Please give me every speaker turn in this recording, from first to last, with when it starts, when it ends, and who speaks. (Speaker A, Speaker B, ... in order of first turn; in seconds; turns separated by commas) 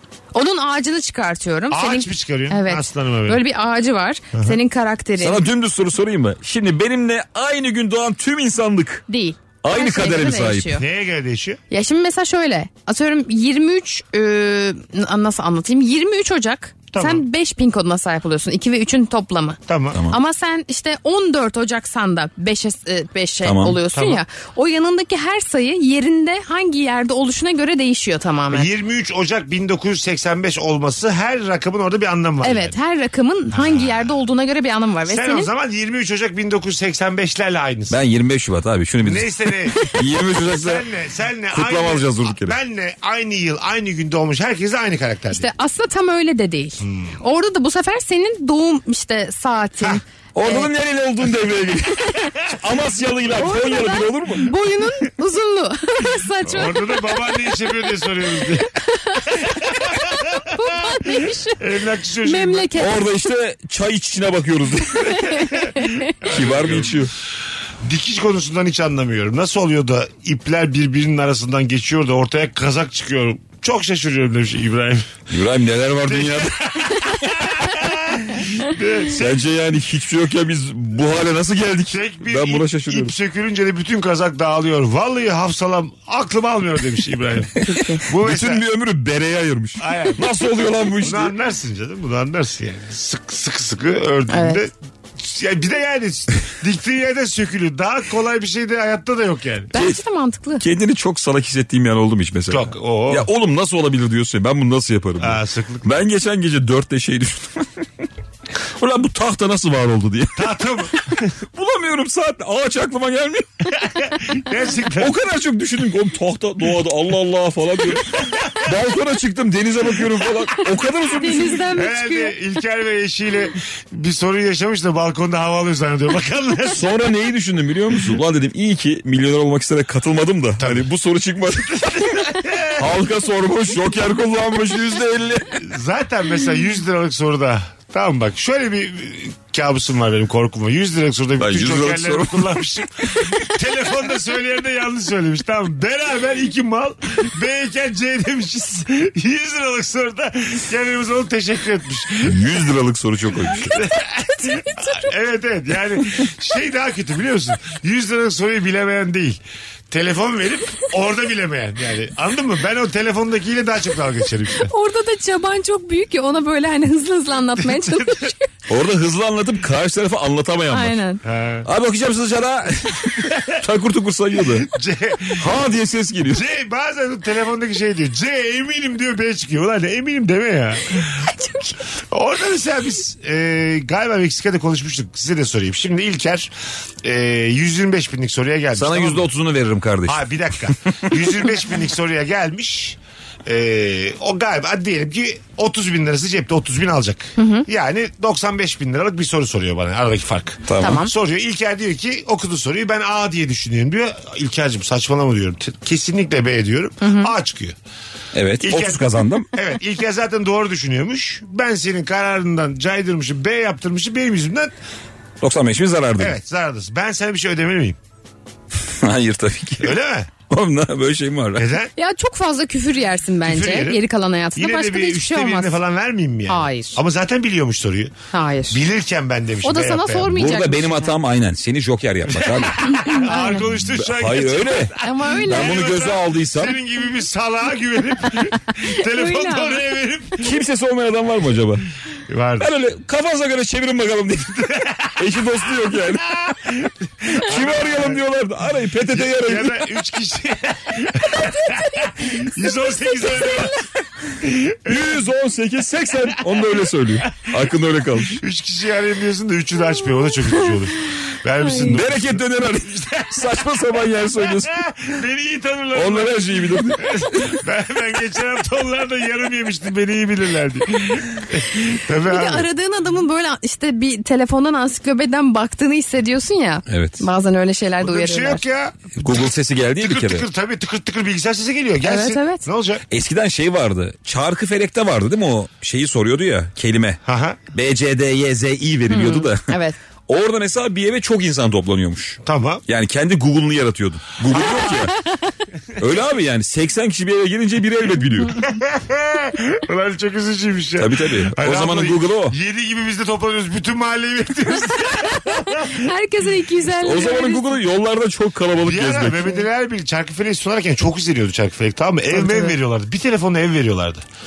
Speaker A: 0.3-5.4, Speaker B: 1.7-3.4, Speaker C: 5.2-9.1, Speaker A: 9.1-10.8, Speaker C: 9.6-10.8, Speaker B: 10.8-11.6, Speaker A: 11.7-28.7, Speaker B: 16.9-17.2, Speaker B: 19.7-20.0, Speaker C: 23.4-23.8, Speaker B: 23.9-24.2, Speaker B: 28.5-32.8, Speaker A: 32.4-35.5, Speaker B: 33.5-34.0, Speaker B: 35.1-38.0, Speaker C: 37.9-40.9, Speaker B: 39.0-45.5, Speaker C: 41.5-42.5, Speaker A: 45.3-50.7, Speaker B: 46.8-47.2, Speaker C: 50.3-54.5, Speaker A: 53.3-57.3, Speaker B: 56.5-58.7, Speaker A: 58.6-61.6, Speaker B: 59.4-60.5, Speaker B: 61.0-62.7, Speaker A: 62.2-63.1, Speaker C: 62.8-65.5, Speaker A: 65.0-66.1, Speaker B: 66.2-67.0, Speaker C: 66.2-67.1, Speaker B: 67.8-75.1, Speaker C: 75.3-76.6, Speaker B: 76.0-79.3, Speaker C: 79.1-83.1, Speaker B: 81.9-88.6, Speaker A: 87.7-88.0, Speaker C: 88.1-91.3, Speaker B: 89.8-90.3, Speaker B: 91.0-99.7, Speaker A: 94.3-94.6, Speaker A: 99.7-100.6, Speaker C: 99.7-100.0, Speaker C: 100.6-107.7, Speaker B: 102.5-103.3, Speaker B: 105.2-105.9, Speaker C: 108.8-113.7, Speaker B: 110.3-111.3, Speaker B: 113.7-115.2, Speaker C: 115.0-121.6, Speaker B: 118.2-118.5, Speaker A: 121.1-122.3, Speaker B: 121.3-126.8, Speaker C: 126.7-135.6, Speaker B: 130.6-130.9, Speaker B: 132.2-132.9, Speaker B: 135.6-152.5, Speaker C: 141.4-143.3, Speaker C: 152.2-153.7, Speaker B: 153.5-164.7, Speaker A: 153.7-155.1, Speaker A: 164.6-168.5, Speaker B: 167.6-168.3, Speaker C: 168.7-171.0, Speaker A: 170.7-171.2, Speaker B: 171.2-171.7, Speaker C: 171.7-174.7, Speaker B: 174.6-175.5, Speaker C: 175.3-176.4, Speaker B: 176.3-181.2, Speaker A: 181.1-181.8, Speaker B: 182.1-186.5, Speaker B: 187.0-189.2, Speaker C: 188.7-190.2, Speaker B: 190.0-207.8, Speaker A: 197.4-197.7, Speaker C: 200.7-201.0, Speaker A: 200.8-201.1, Speaker A: 207.0-207.3, Speaker C: 208.3-209.5, Speaker B: 208.6-214.7, Speaker C: 215.4-216.3, Speaker B: 216.2-218.0, Speaker C: 219.0-221.7, Speaker B: 219.8-220.3, Speaker B: 221.6-221.9, Speaker A: 222.0-225.8, Speaker B: 223.4-224.0, Speaker B: 224.6-228.1, Speaker A: 226.5-227.0, Speaker A: 228.3-228.8, Speaker B: 228.7-230.3, Speaker A: 229.6-231.1, Speaker C: 230.3-234.9, Speaker B: 232.3-240.5, Speaker A: 232.9-233.6, Speaker A: 235.0-235.8, Speaker C: 235.5-236.8, Speaker A: 238.9-239.9, Speaker C: 240.4-241.8, Speaker B: 242.3-242.7, Speaker C: 242.6-246.8, Speaker B: 246.8-248.2, Speaker C: 247.3-249.9, Speaker B: 249.1-253.8, Speaker A: 251.4-252.6, Speaker B: 254.4-255.2, Speaker C: 254.8-258.4, Speaker B: 256.6-256.9, Speaker B: 258.3-263.5, Speaker A: 261.6-262.0, Speaker C: 261.9-264.8, Speaker B: 264.4-272.7, Speaker C: 265.9-267.5, Speaker A: 272.2-278.6, Speaker C: 276.9-277.2, Speaker B: 278.0-279.1, Speaker C: 279.2-280.4, Speaker B: 280.0-283.0, Speaker A: 282.0-282.6, Speaker C: 283.1-287.2, Speaker B: 287.2-287.6, Speaker C: 287.7-289.7, Speaker A: 289.1-289.9, Speaker C: 290.3-295.1, Speaker B: 292.4-292.8, Speaker B: 294.5-295.1, Speaker C: 296.0-298.7, Speaker B: 298.6-306.0, Speaker C: 301.0-302.5, Speaker A: 305.5-307.8, Speaker C: 307.0-309.4, Speaker B: 308.8-314.2, Speaker A: 312.3-312.7